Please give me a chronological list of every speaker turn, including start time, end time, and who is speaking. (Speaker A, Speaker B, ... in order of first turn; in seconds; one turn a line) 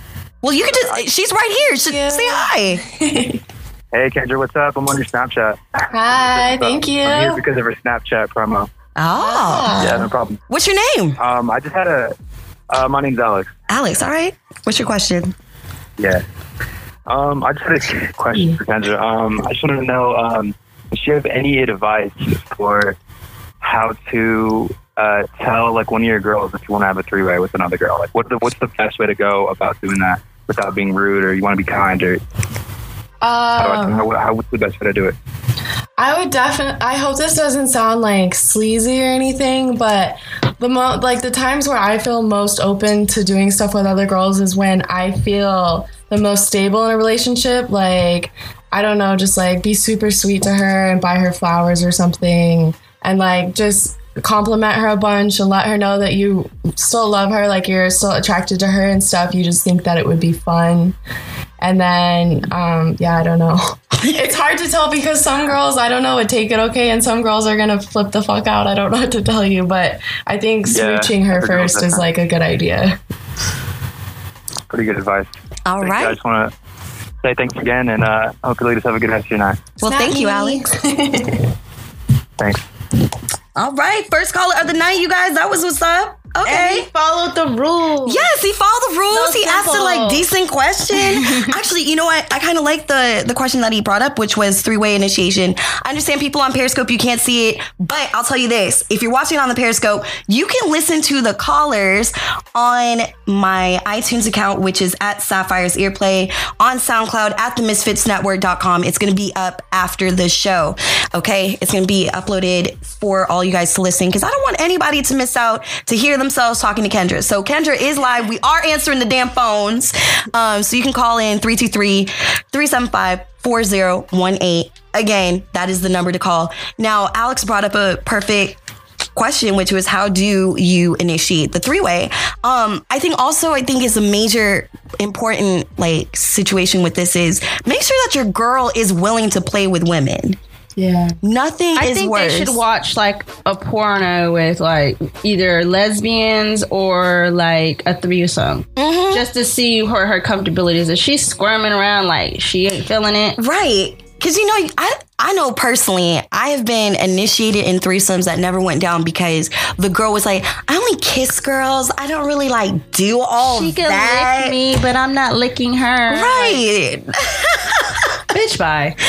Speaker A: 0.4-2.8
Speaker B: 0.6-1.0
Speaker C: 1.8-3.4
Speaker B: 3.9-8.7
Speaker C: 5.9-7.4
Speaker A: 8.9-9.8
Speaker C: 9.2-10.1
Speaker B: 9.7-10.4
Speaker A: 10.5-11.2
Speaker B: 11.2-12.1
Speaker B: 12.7-13.5
Speaker A: 13.7-15.3
Speaker B: 17.1-23.0
Speaker B: 23.6-32.2
Speaker C: 33.2-34.1
Speaker B: 33.5-35.1
Speaker C: 36.0-61.0
Speaker C: 61.6-73.0
Speaker B: 70.7-72.0
Speaker B: 74.7-76.5
Speaker A: 75.7-76.2
Speaker B: 77.2-79.7
Speaker A: 79.8-80.6
Speaker C: 79.8-81.5
Speaker A: 83.5-86.9
Speaker D: 86.4-88.3
Speaker A: 88.0-128.6
Speaker D: 89.1-90.3
Speaker A: 129.1-140.4
Speaker C: 140.8-141.2
Speaker A: 141.2-142.6
Speaker D: 141.8-153.4
Speaker A: 148.8-149.3
Speaker A: 153.4-164.6
Speaker D: 163.4-166.6
Speaker A: 166.1-168.2
Speaker D: 168.3-169.0